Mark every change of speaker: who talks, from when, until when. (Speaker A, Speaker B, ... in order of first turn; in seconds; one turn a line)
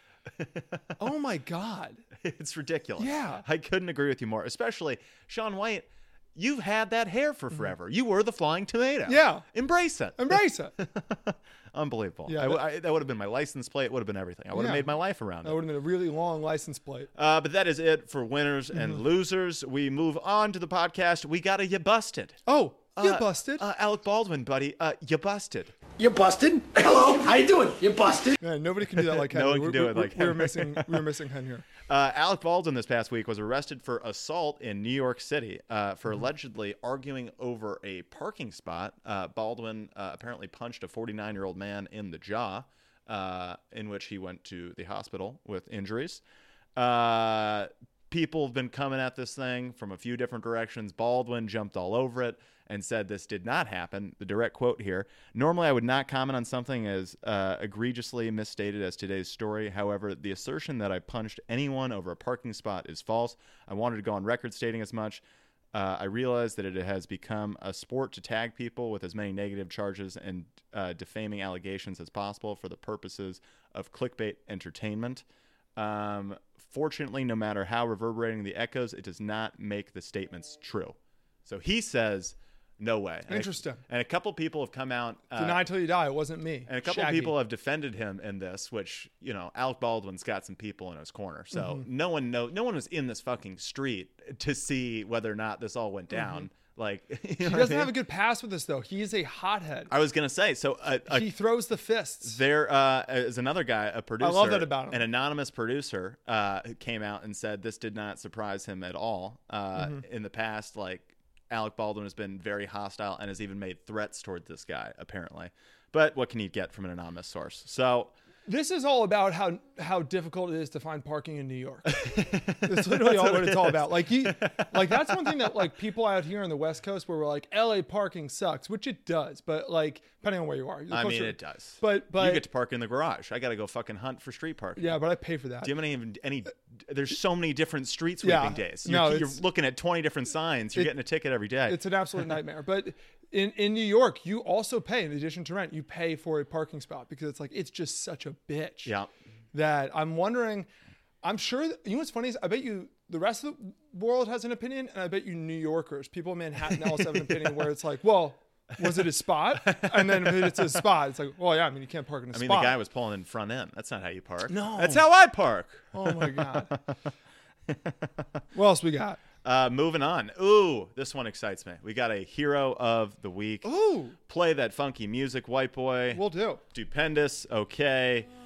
Speaker A: 0.4-0.8
Speaker B: 1.0-2.0
Speaker A: 2.2-15.6
Speaker B: 3.0-3.4
Speaker B: 9.1-9.4
Speaker B: 10.2-10.7
Speaker B: 12.3-12.6
Speaker B: 14.5-14.9
Speaker B: 15.4-17.1
Speaker A: 17.1-22.4
Speaker B: 22.4-23.6
Speaker A: 23.0-25.7
Speaker C: 26.0-28.3
Speaker B: 28.4-31.7
Speaker A: 29.1-31.0
Speaker A: 31.9-46.2
Speaker A: 46.8-65.2
Speaker A: 65.7-75.2
Speaker A: 75.8-85.6
Speaker B: 83.3-83.8
Speaker B: 85.3-87.3
Speaker A: 86.7-97.9
Speaker B: 91.5-91.8
Speaker B: 96.1-96.4
Speaker B: 97.4-99.9
Speaker A: 99.9-101.3
Speaker B: 101.1-102.4
Speaker A: 102.2-118.1
Speaker B: 104.2-105.0
Speaker B: 109.8-110.0
Speaker B: 118.5-122.0
Speaker A: 121.9-125.5
Speaker B: 122.6-132.4
Speaker A: 130.9-135.0
Speaker B: 134.8-135.7
Speaker A: 135.6-141.8
Speaker B: 138.2-139.4
Speaker B: 141.7-148.9
Speaker A: 148.8-149.1
Speaker B: 149.5-150.7
Speaker B: 151.2-162.8
Speaker A: 159.6-160.8
Speaker A: 162.3-166.8
Speaker B: 164.5-165.0
Speaker B: 165.9-166.8
Speaker B: 168.5-169.2
Speaker A: 169.4-173.7
Speaker B: 173.6-174.2
Speaker A: 174.3-178.3
Speaker B: 176.1-176.6